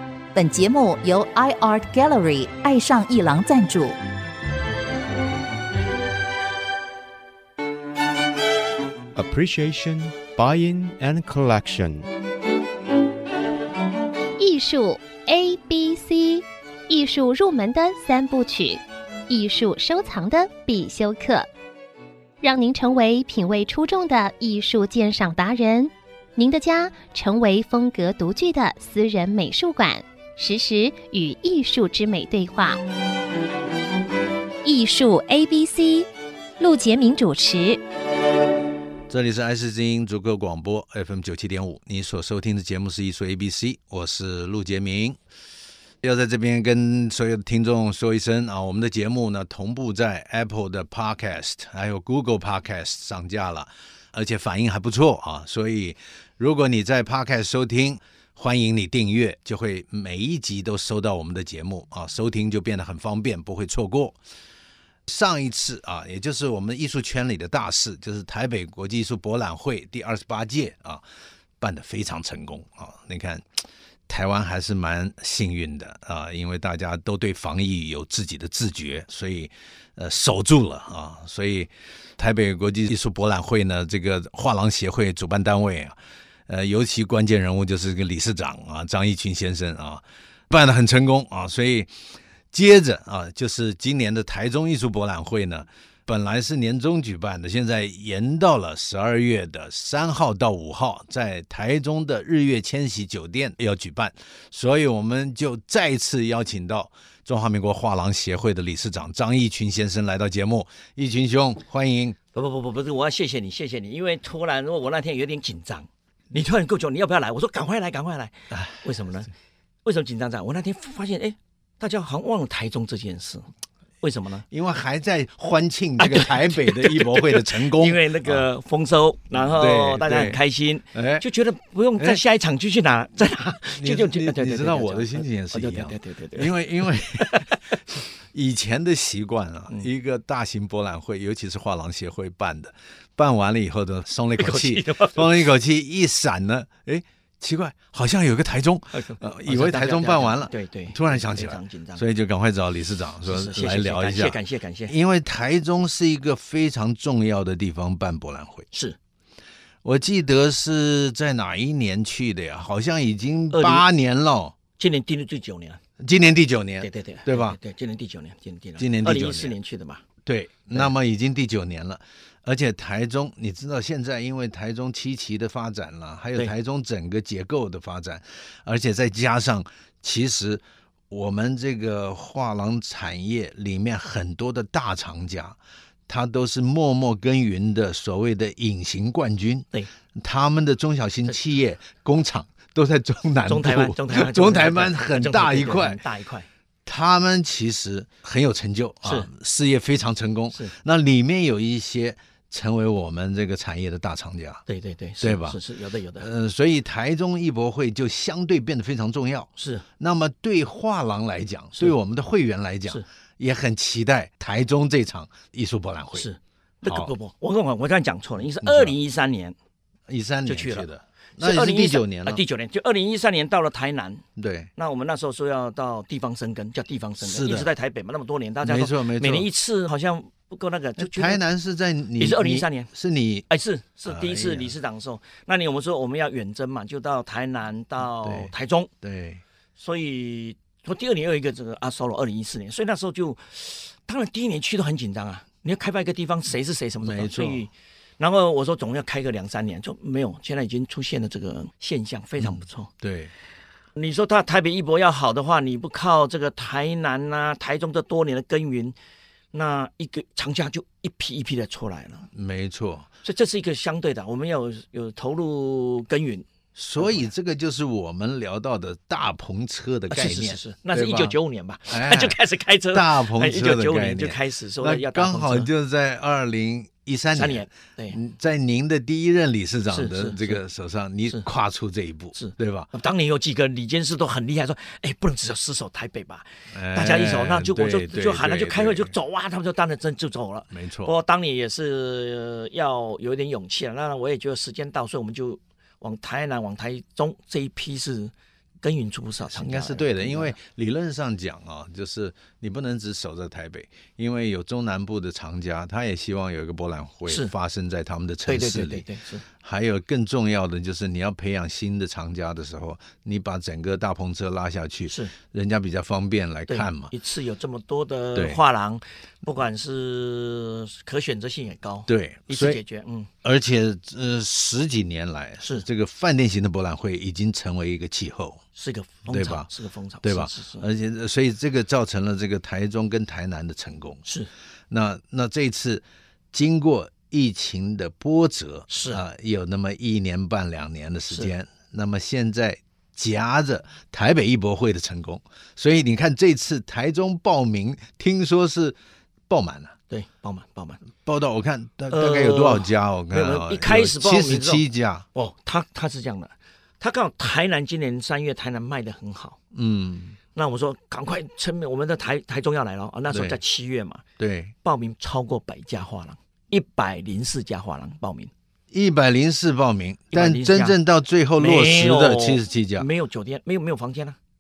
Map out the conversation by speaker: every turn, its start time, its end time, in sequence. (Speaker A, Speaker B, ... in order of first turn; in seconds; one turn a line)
Speaker A: 0.3-4.0
Speaker B: 9.1-12.1
Speaker C: 14.4-21.5
Speaker C: 22.4-32.8
Speaker C: 34.6-36.1
Speaker C: 36.6-37.8
Speaker D: 39.1-45.2
Speaker D: 46.0-64.2
Speaker D: 65.1-71.0
Speaker D: 71.6-73.5
Speaker D: 74.1-86.0
Speaker D: 86.5-92.0
Speaker D: 92.5-112.2
Speaker E: 112.3-119.3
Speaker E: 119.8-123.5
Speaker E: 124.0-124.5
Speaker D: 124.5-128.5
Speaker E: 126.0-136.6
Speaker D: 129.5-130.4
Speaker D: 130.9-131.2
Speaker D: 133.8-137.5
Speaker E: 137.1-137.6
Speaker D: 138.3-158.7
Speaker E: 144.4-145.4
Speaker E: 148.9-152.0
Speaker E: 153.3-154.9
Speaker E: 158.7-159.0
Speaker D: 159.8-164.5
Speaker E: 163.5-163.9
Speaker E: 164.8-165.8
Speaker D: 166.0-167.6
Speaker E: 166.8-170.0
Speaker D: 168.8-169.6
Speaker D: 170.2-185.6
Speaker D: 186.1-196.0
Speaker E: 193.4-196.5
Speaker D: 196.8-204.6
Speaker E: 199.0-199.3
Speaker E: 204.7-206.3
Speaker D: 205.2-205.6
Speaker D: 206.2-216.3
Speaker E: 209.6-209.8
Speaker E: 216.1-219.5
Speaker D: 216.8-217.1
Speaker D: 218.6-218.9
Speaker D: 220.1-222.4
Speaker E: 220.4-224.2
Speaker D: 224.4-224.7
Speaker E: 224.8-231.4
Speaker D: 227.2-227.7
Speaker D: 228.6-229.5
Speaker D: 231.0-233.4
Speaker E: 232.2-232.9
Speaker E: 233.5-238.9
Speaker D: 234.1-234.7
Speaker D: 238.2-238.5
Speaker D: 239.0-239.4
Speaker E: 239.8-252.9
Speaker D: 247.0-247.6
Speaker D: 252.4-253.3
Speaker E: 254.0-258.9
Speaker E: 259.5-262.3
Speaker D: 262.3-263.1
Speaker E: 263.2-266.5
Speaker D: 266.8-271.4
Speaker E: 267.0-267.3
Speaker E: 270.1-275.7
Speaker D: 271.9-272.4
Speaker D: 272.9-282.9
Speaker E: 277.3-278.2
Speaker E: 279.9-280.6
Speaker E: 282.3-300.6
Speaker D: 286.7-289.1
Speaker D: 290.7-291.1
Speaker D: 299.5-309.1
Speaker E: 308.5-309.4
Speaker D: 309.6-317.1
Speaker E: 315.1-315.3
Speaker E: 316.7-323.3
Speaker D: 318.4-318.6
Speaker D: 322.1-322.8
Speaker D: 323.4-328.6
Speaker E: 325.6-325.9
Speaker E: 328.8-330.9
Speaker D: 329.3-329.7
Speaker D: 330.2-334.2
Speaker D: 334.9-349.0
Speaker E: 338.9-339.2
Speaker D: 349.5-349.9
Speaker E: 350.1-351.0
Speaker D: 351.2-355.2
Speaker E: 352.1-354.8
Speaker E: 355.4-359.6
Speaker D: 359.7-360.4
Speaker E: 360.6-364.2
Speaker D: 363.3-363.6
Speaker D: 364.4-364.7
Speaker E: 364.8-368.5
Speaker D: 368.9-373.1
Speaker E: 370.3-371.0
Speaker E: 371.6-374.4